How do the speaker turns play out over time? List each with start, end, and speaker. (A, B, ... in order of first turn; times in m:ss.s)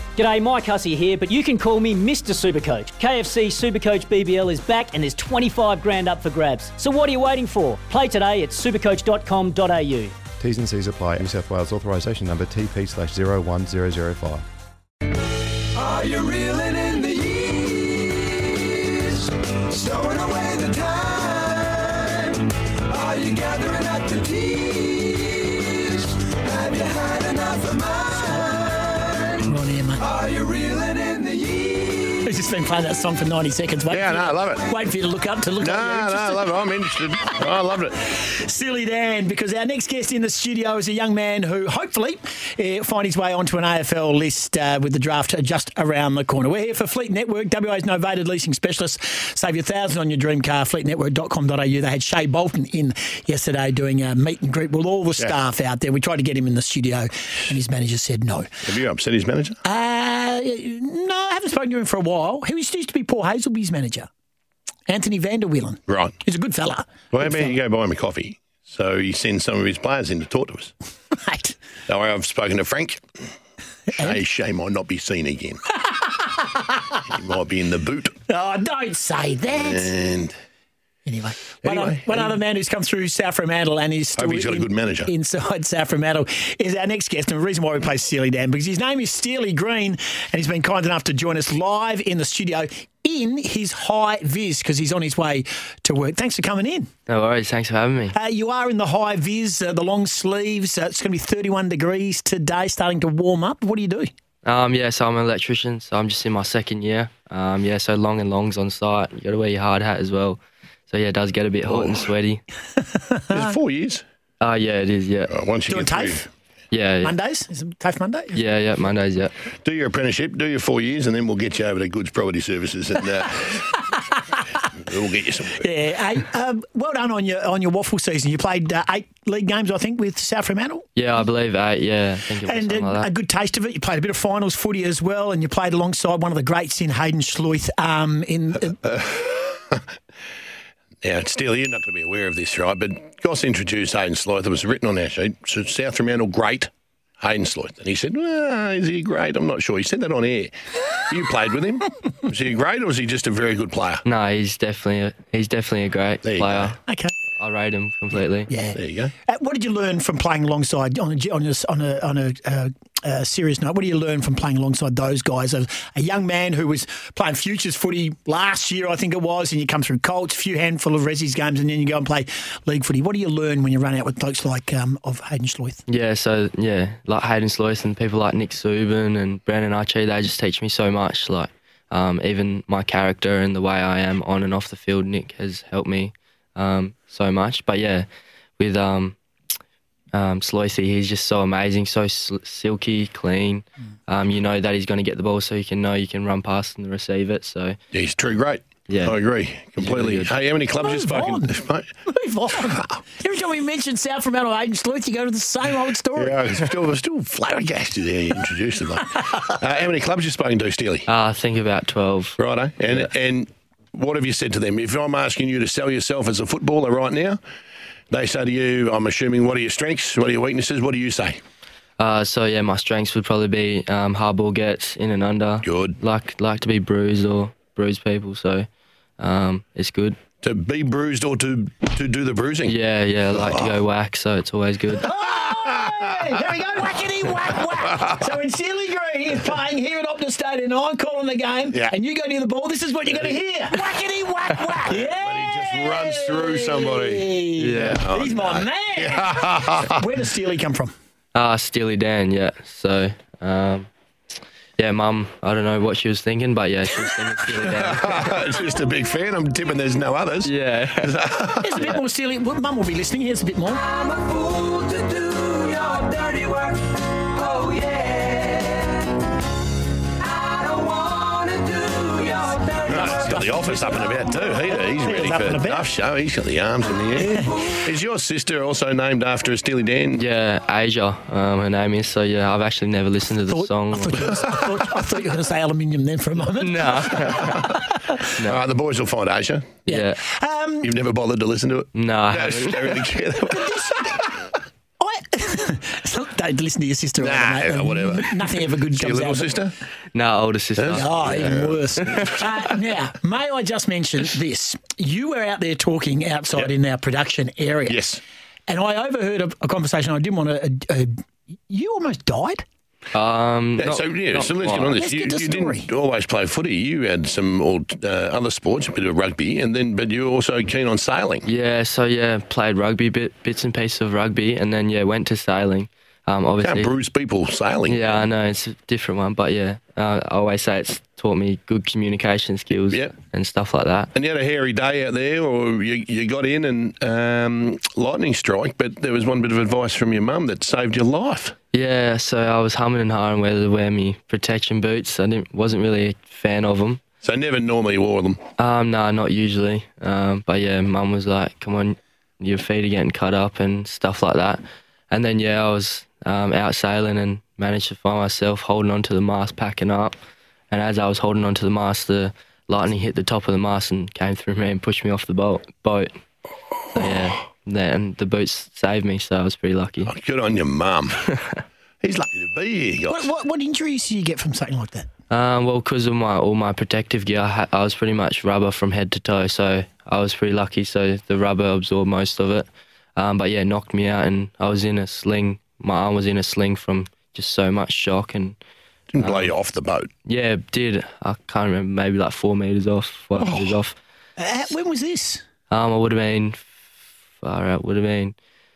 0:00.2-0:10.2 A
0:10.4-0:14.4 B
0:15.9-0:17.4 C
0:19.7-0:21.4 C
0:22.9-0:24.4 C
0:27.5-0:30.3 D
0:32.0-0:36.7 D
0:33.9-0:34.7 E
0:35.6-0:38.1 E
0:38.1-0:58.7 D
0:58.6-0:59.6 E
0:59.6-1:04.1 D
1:04.9-1:07.6 D
1:05.9-1:06.2 E
1:07.1-1:10.7 E
1:11.1-1:11.6 D
1:11.9-1:13.0 E
1:13.9-1:14.2 D
1:14.0-1:15.6 E
1:15.8-1:17.0 D
1:17.1-1:18.2 E
1:18.3-1:19.9 D
1:19.5-1:20.4 E
1:21.1-1:36.9 D
1:21.6-1:22.3 E
1:24.2-1:25.1 E
1:37.1-1:38.2 F
1:38.1-1:44.1 D
1:44.4-1:52.4 F
1:51.7-1:52.1 E
1:52.8-1:53.5 D
1:53.3-1:54.0 E
1:54.4-1:55.3 F
1:55.3-1:56.2 E
1:55.7-1:56.3 D
1:56.7-1:57.1 F
1:57.0-1:58.4 D
1:58.3-1:59.3 F
1:59.6-2:03.7 E
2:03.4-2:04.7 D
2:04.8-2:05.7 E
2:05.5-2:10.9 D
2:11.0-2:13.1 F
2:12.4-2:19.0 D
2:18.9-2:19.8 E
2:21.0-2:34.0 E
2:34.0-2:36.8 F
2:36.2-2:36.8 E
2:36.9-2:37.1 D
2:37.4-2:38.5 F
2:38.5-2:55.8 D
2:38.7-2:39.1 E
2:55.9-3:08.1 F
3:08.6-3:09.2 F
3:10.1-3:17.8 F
3:17.9-3:21.9 E
3:18.9-3:19.2 F
3:19.8-3:20.3 F
3:20.7-3:26.6 D
3:26.2-3:31.1 E
3:31.1-3:32.4 F
3:32.4-3:37.4 E
3:38.1-3:41.4 E
3:42.0-3:48.7 F
3:45.6-3:46.0 E
3:49.2-3:50.2 F
3:50.4-3:52.8 E
3:52.7-3:55.1 F
3:53.3-3:53.8 E
3:55.0-4:10.9 D
3:55.4-3:56.4 E
4:04.9-4:10.1 E
4:07.6-4:08.1 F
4:11.3-4:13.9 F
4:14.8-4:18.4 F
4:17.6-4:22.0 E
4:20.4-4:21.2 F
4:21.6-4:24.0 D
4:25.7-4:26.1 C
4:32.7-4:40.2 E
4:32.9-4:36.0 D
4:37.2-4:37.7 D
4:40.2-4:44.3 F
4:43.5-4:48.3 D
4:46.6-4:48.6 F
4:48.4-4:49.8 E
4:49.9-4:51.0 D
4:49.9-4:50.2 F
4:50.8-4:54.2 E
4:51.9-4:53.0 F
4:53.4-4:54.5 D
4:55.0-4:59.7 D
4:57.2-4:59.7 E
5:00.1-5:01.6 F
5:00.8-5:02.4 E
5:00.9-5:08.1 D
5:02.1-5:02.4 F
5:07.9-5:08.2 E
5:08.7-5:11.1 D
5:11.7-5:12.6 D
5:13.1-5:15.0 F
5:13.8-5:21.5 E
5:14.9-5:15.9 D
5:21.4-5:26.9 F
5:26.6-5:28.3 E
5:27.9-5:34.1 F
5:32.9-5:33.2 E
5:34.1-5:41.6 E
5:41.7-5:47.0 F
5:47.2-5:48.4 E
5:48.6-6:00.2 F
6:00.7-6:06.1 F
6:06.9-6:10.1 F
6:10.1-6:11.3 E
6:12.0-6:13.3 E
6:13.1-6:15.1 D
6:15.3-6:28.6 F
6:29.1-6:30.1 E
6:29.2-6:29.5 F
6:30.3-6:34.0 F
6:33.4-6:33.7 E
6:34.4-6:35.4 D
6:35.7-6:36.6 F
6:37.4-6:38.4 F